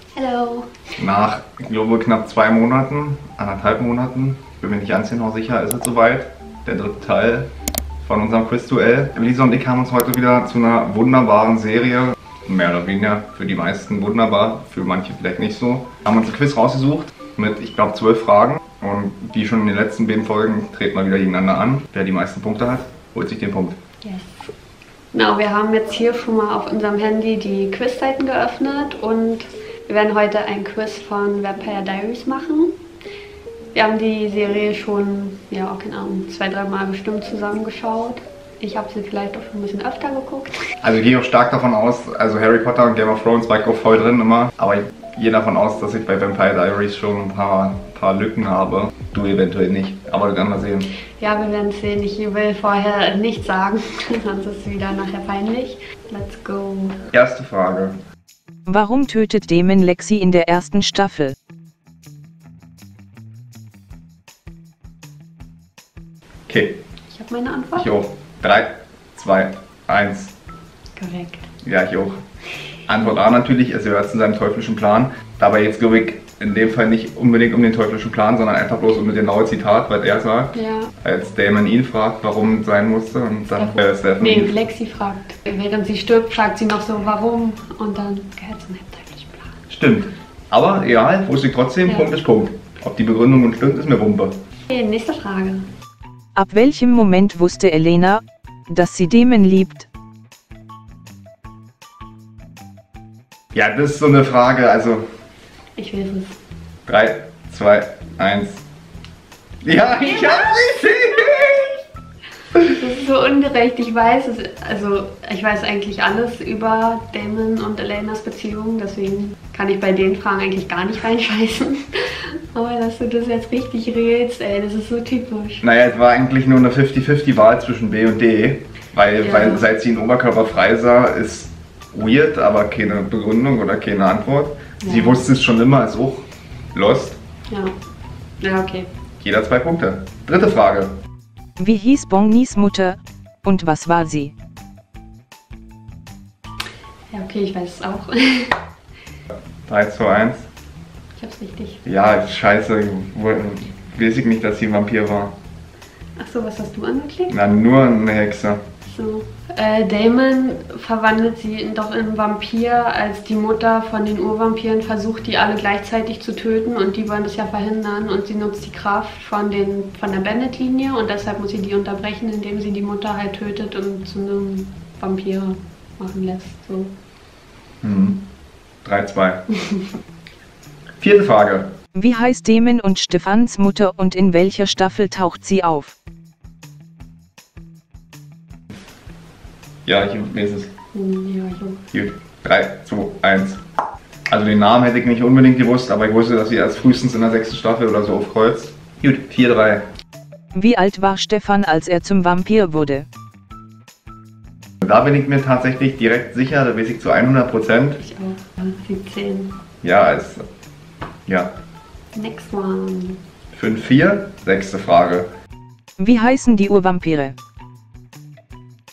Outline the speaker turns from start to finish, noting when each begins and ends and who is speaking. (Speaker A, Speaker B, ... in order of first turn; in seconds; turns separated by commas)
Speaker A: 0.1-0.7, Speaker B: 1.0-7.5, Speaker B: 8.0-23.8, Speaker A: 24.0-24.4, Speaker A: 25.1-32.7, Speaker A: 33.7-40.6, Speaker B: 40.8-50.9, Speaker A: 51.2-57.0, Speaker B: 57.1-58.0, Speaker C: 58.7-61.4, Speaker B: 66.5-66.8, Speaker A: 67.1-67.9, Speaker B: 67.8-70.3, Speaker A: 71.0-71.5, Speaker B: 71.6-72.2, Speaker B: 72.9-84.6, Speaker A: 80.5-80.9, Speaker A: 83.5-89.5, Speaker B: 89.7-94.4, Speaker A: 91.8-92.1, Speaker A: 94.7-95.7, Speaker C: 96.3-99.9, Speaker B: 103.5-105.0, Speaker A: 105.8-106.4, Speaker B: 106.8-108.6, Speaker B: 109.6-111.8, Speaker A: 112.6-125.6, Speaker B: 125.6-137.2, Speaker A: 129.2-129.7, Speaker A: 134.8-135.2, Speaker A: 137.5-137.7, Speaker A: 138.4-138.9, Speaker B: 139.2-140.9, Speaker C: 141.6-144.3, Speaker A: 147.1-148.6, Speaker B: 149.7-150.5, Speaker A: 151.2-151.8, Speaker B: 151.8-155.3, Speaker A: 156.2-157.3, Speaker B: 157.3-158.6, Speaker A: 158.8-176.9, Speaker B: 177.8-178.2, Speaker B: 178.8-179.4, Speaker B: 181.0-181.7, Speaker C: 181.9-185.9, Speaker B: 189.8-190.7, Speaker A: 190.9-191.8, Speaker B: 191.9-193.6, Speaker B: 194.3-199.9, Speaker C: 200.5-203.1, Speaker B: 204.8-208.0, Speaker A: 208.0-209.6, Speaker B: 209.8-210.4, Speaker B: 211.3-211.5, Speaker A: 212.1-213.2, Speaker B: 213.5-215.3, Speaker C: 216.0-217.3